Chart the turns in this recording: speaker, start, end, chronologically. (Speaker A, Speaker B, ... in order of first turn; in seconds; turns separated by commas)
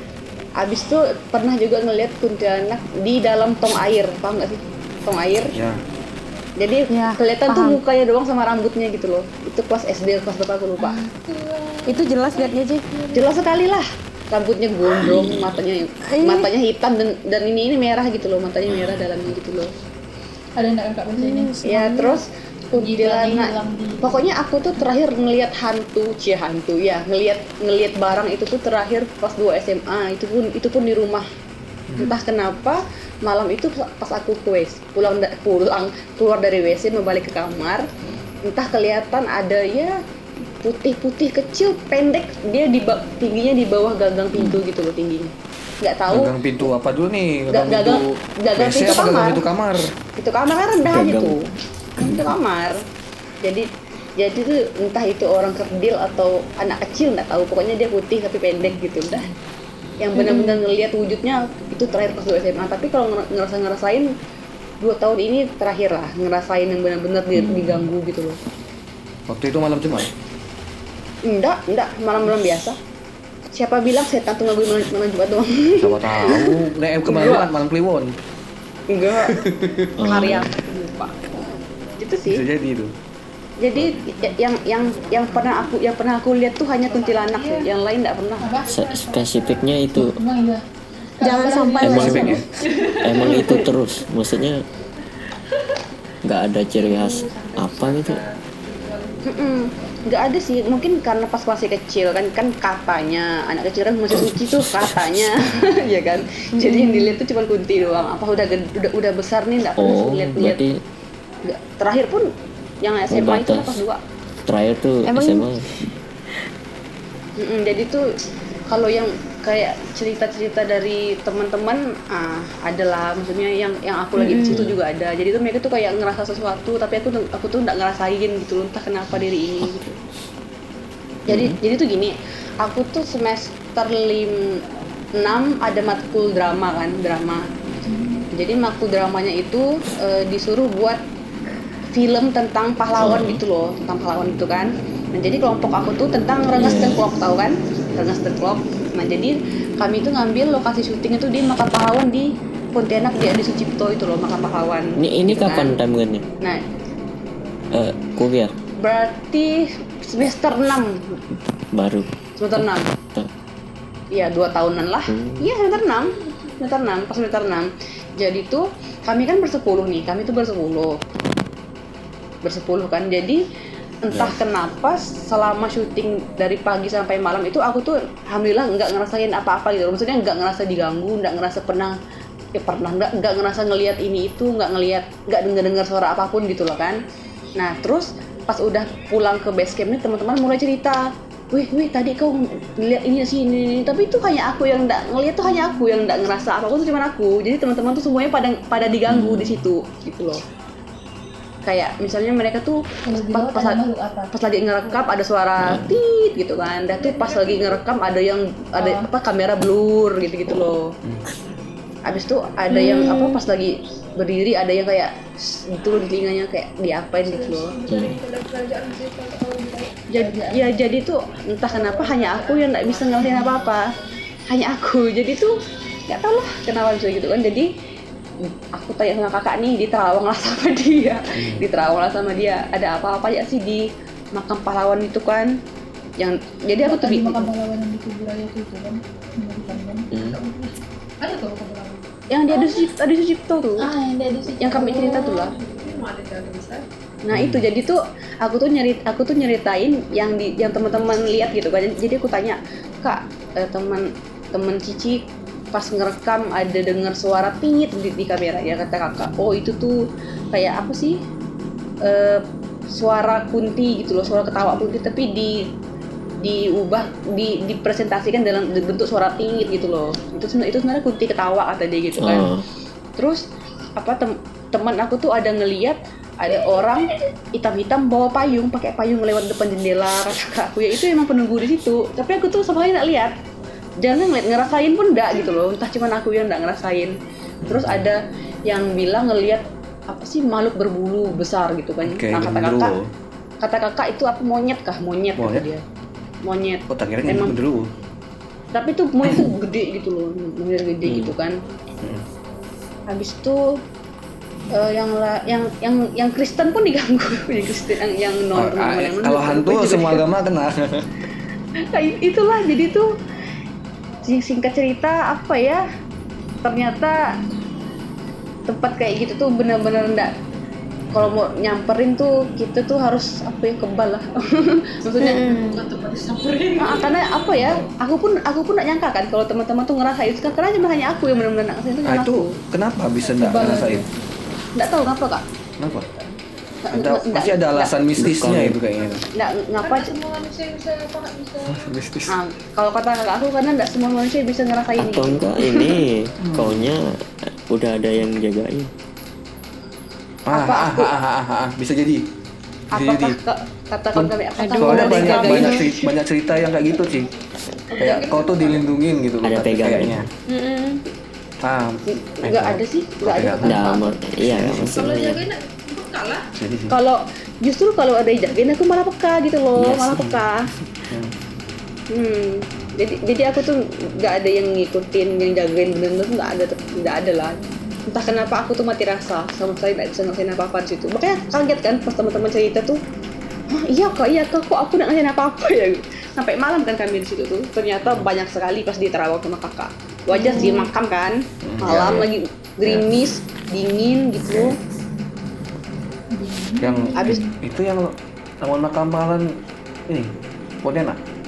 Speaker A: 0.6-5.5, Speaker B: 5.5-5.8, Speaker A: 6.6-11.0, Speaker C: 6.9-7.8, Speaker D: 11.1-13.3, Speaker C: 11.9-12.8, Speaker A: 13.1-19.7, Speaker E: 14.9-15.6, Speaker C: 16.1-16.5, Speaker B: 18.6-19.1, Speaker D: 20.6-21.5, Speaker C: 21.1-22.2, Speaker A: 21.6-31.2, Speaker D: 22.8-24.1, Speaker A: 32.0-37.8, Speaker A: 38.4-40.0, Speaker A: 40.6-46.7, Speaker E: 44.3-44.6, Speaker B: 46.1-49.9, Speaker A: 47.5-49.4, Speaker A: 50.1-51.4, Speaker E: 50.8-51.4, Speaker A: 52.0-52.8, Speaker A: 54.2-59.3, Speaker A: 60.0-64.1, Speaker C: 60.2-60.6, Speaker A: 64.8-68.4, Speaker E: 67.3-67.8, Speaker B: 69.3-70.1, Speaker A: 71.2-72.8, Speaker A: 73.5-76.5, Speaker B: 75.7-78.1, Speaker A: 77.0-77.5, Speaker A: 78.9-79.4, Speaker B: 79.3-79.9, Speaker E: 80.0-80.5, Speaker A: 80.0-81.2, Speaker A: 82.0-82.4, Speaker B: 82.3-82.9, Speaker A: 83.6-88.5, Speaker B: 83.8-84.0, Speaker D: 86.9-87.7, Speaker D: 88.4-90.6, Speaker E: 88.7-90.1, Speaker D: 91.2-93.5, Speaker C: 91.2-92.4, Speaker B: 91.8-92.4, Speaker E: 91.8-92.3, Speaker E: 93.0-94.6, Speaker A: 93.2-93.7, Speaker E: 96.2-98.2, Speaker D: 96.8-99.6, Speaker A: 99.2-110.6, Speaker E: 104.1-105.5, Speaker C: 106.6-107.2, Speaker E: 109.8-110.7, Speaker A: 111.5-112.3, Speaker A: 112.8-114.0, Speaker E: 113.1-113.8, Speaker E: 114.5-115.7, Speaker C: 115.1-115.5, Speaker A: 117.4-118.0, Speaker A: 118.7-129.9, Speaker C: 124.2-124.7, Speaker E: 124.5-124.7, Speaker A: 131.3-134.5, Speaker E: 131.3-131.6, Speaker A: 135.1-137.4, Speaker D: 137.8-138.3, Speaker A: 138.3-141.0, Speaker A: 141.9-155.8, Speaker E: 143.0-143.4, Speaker E: 146.6-147.0, Speaker E: 155.0-156.2, Speaker E: 157.7-158.5, Speaker A: 158.8-161.2, Speaker E: 161.7-163.3, Speaker A: 162.4-162.9, Speaker A: 164.1-171.0, Speaker E: 165.1-165.5, Speaker A: 172.4-173.4, Speaker A: 174.0-181.9, Speaker A: 182.6-187.0, Speaker A: 187.6-200.4, Speaker D: 195.4-195.9, Speaker E: 199.1-199.7, Speaker A: 201.7-210.9, Speaker D: 203.1-204.3, Speaker D: 204.8-205.1, Speaker E: 205.6-206.0, Speaker D: 206.9-208.0, Speaker D: 208.8-209.1, Speaker E: 210.5-210.8, Speaker A: 212.0-217.7, Speaker C: 212.7-213.4, Speaker D: 217.2-220.7, Speaker E: 217.9-218.2, Speaker A: 220.1-223.8, Speaker D: 221.7-224.0, Speaker A: 224.5-225.5, Speaker A: 226.1-227.7, Speaker A: 228.7-235.5, Speaker B: 231.3-231.6, Speaker A: 236.2-237.5, Speaker D: 236.8-242.9, Speaker E: 240.1-240.4, Speaker A: 242.3-243.9, Speaker D: 243.8-246.8, Speaker A: 244.6-245.5, Speaker A: 247.2-260.0, Speaker B: 247.3-247.6, Speaker A: 260.5-261.2, Speaker A: 262.0-265.7, Speaker A: 266.4-272.5, Speaker E: 272.2-272.6, Speaker A: 273.2-273.4, Speaker A: 273.9-283.3, Speaker A: 284.0-287.1, Speaker B: 287.6-288.0, Speaker A: 287.7-292.9, Speaker B: 292.0-293.1, Speaker A: 293.6-295.8, Speaker B: 295.4-295.6, Speaker A: 296.4-297.6, Speaker B: 296.9-297.9, Speaker A: 298.7-301.6, Speaker E: 301.0-301.3, Speaker A: 303.1-303.8, Speaker A: 304.7-310.2, Speaker B: 308.5-311.1, Speaker A: 311.8-313.1, Speaker A: 314.2-315.8, Speaker A: 316.6-317.2, Speaker A: 318.7-320.3, Speaker A: 321.1-325.5, Speaker C: 325.2-325.8, Speaker D: 325.5-327.3, Speaker A: 326.8-332.5, Speaker B: 327.5-327.9, Speaker B: 332.0-334.0, Speaker D: 333.2-334.1, Speaker A: 334.8-335.4, Speaker B: 335.8-336.1, Speaker A: 336.9-337.9, Speaker B: 336.9-339.2, Speaker E: 338.2-338.8, Speaker A: 339.4-340.1, Speaker D: 339.8-341.8, Speaker B: 341.7-342.3, Speaker A: 342.3-345.9, Speaker E: 344.9-347.0, Speaker B: 346.4-346.9, Speaker E: 347.7-348.9, Speaker B: 350.5-352.2, Speaker A: 350.5-351.1, Speaker A: 352.9-356.1, Speaker B: 352.9-353.4, Speaker B: 354.1-357.3, Speaker C: 354.6-355.9, Speaker D: 357.9-358.9, Speaker B: 358.0-360.3, Speaker E: 359.4-360.2, Speaker C: 360.5-361.0, Speaker B: 361.6-363.8, Speaker A: 362.1-364.1, Speaker E: 363.6-365.4, Speaker B: 364.5-365.4, Speaker D: 364.9-366.4, Speaker B: 366.6-366.9, Speaker A: 366.9-370.7, Speaker E: 369.8-370.4, Speaker A: 372.1-377.6, Speaker A: 378.1-383.0, Speaker A: 383.7-394.8, Speaker C: 390.3-390.9, Speaker D: 390.5-390.8, Speaker B: 391.6-392.3, Speaker D: 396.3-397.5, Speaker B: 396.8-399.5, Speaker A: 397.1-397.4, Speaker B: 400.8-401.2